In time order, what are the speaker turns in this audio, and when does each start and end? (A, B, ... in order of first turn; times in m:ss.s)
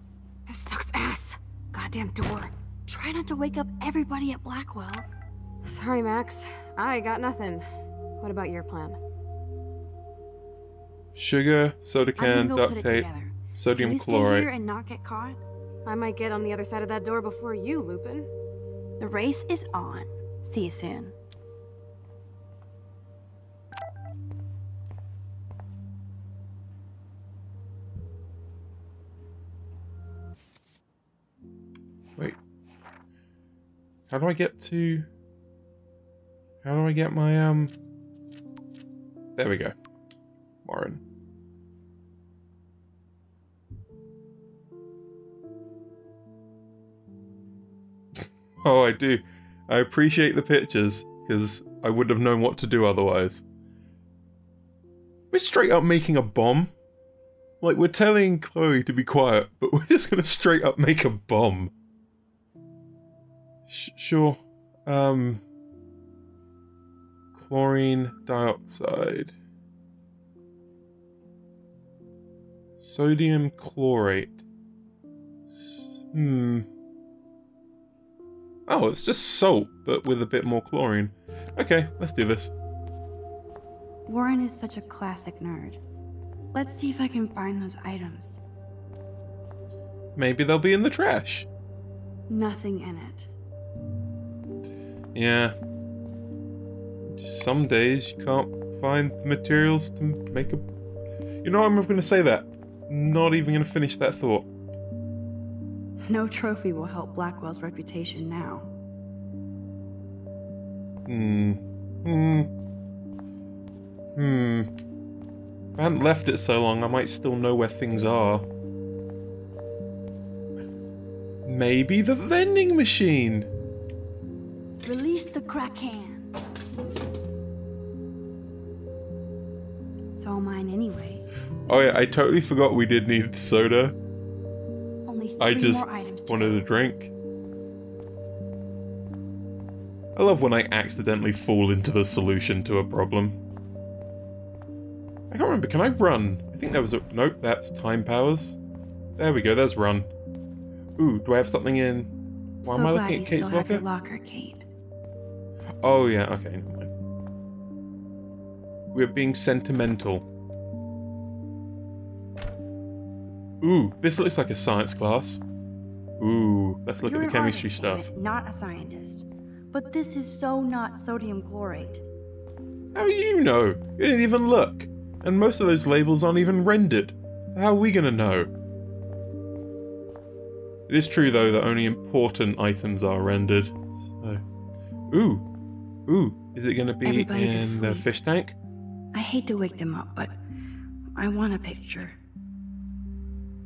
0:00.5-0:02.5 A
0:02.9-0:05.0 B
0:05.6-0:07.6 A
0:08.2-0:09.0 A
0:11.2-0:14.5 C
0:12.2-0:15.4 B
0:15.8-0:18.3 A
0:19.0-0:21.1 B
0:34.1-0:35.1 C
0:36.6-0:37.7 C
0:39.4-0:39.8 C
0:40.6-0:41.0 C
0:48.2-0:53.4 C
0:55.3-0:56.7 C
0:57.6-1:01.7 C
1:03.7-1:05.4 C
1:07.3-1:09.3 C
1:12.8-1:14.4 C
1:15.5-1:16.7 C
1:18.7-1:22.5 C
1:24.1-1:25.8 B
1:26.5-1:28.4 B
1:30.2-1:31.5 C
1:32.3-1:33.3 B
1:35.2-1:35.5 C
1:37.0-1:40.6 C
1:41.4-1:44.5 C
1:46.1-1:48.7 B
1:51.1-1:52.5 C
1:54.2-1:54.7 C
1:55.8-1:58.5 C
2:01.5-2:03.5 C
2:04.8-2:06.3 B
2:10.2-2:11.2 B
2:11.7-2:14.0 C
2:15.1-2:16.6 B
2:15.4-2:17.1 C
2:20.2-2:23.4 C
2:25.3-2:28.6 C
2:29.2-2:30.1 C
2:31.0-2:32.1 C
2:32.6-2:33.8 C
2:32.6-2:34.7 B
2:35.8-2:36.9 C
2:38.9-2:40.3 C
2:43.6-2:45.4 C
2:46.2-2:48.1 C
2:47.0-2:52.0 B
2:52.9-2:58.5 C
3:00.9-3:04.4 C
3:05.1-3:05.5 C
3:06.1-3:08.6 C
3:07.0-3:08.1 B
3:09.1-3:10.4 B
3:11.2-3:12.2 B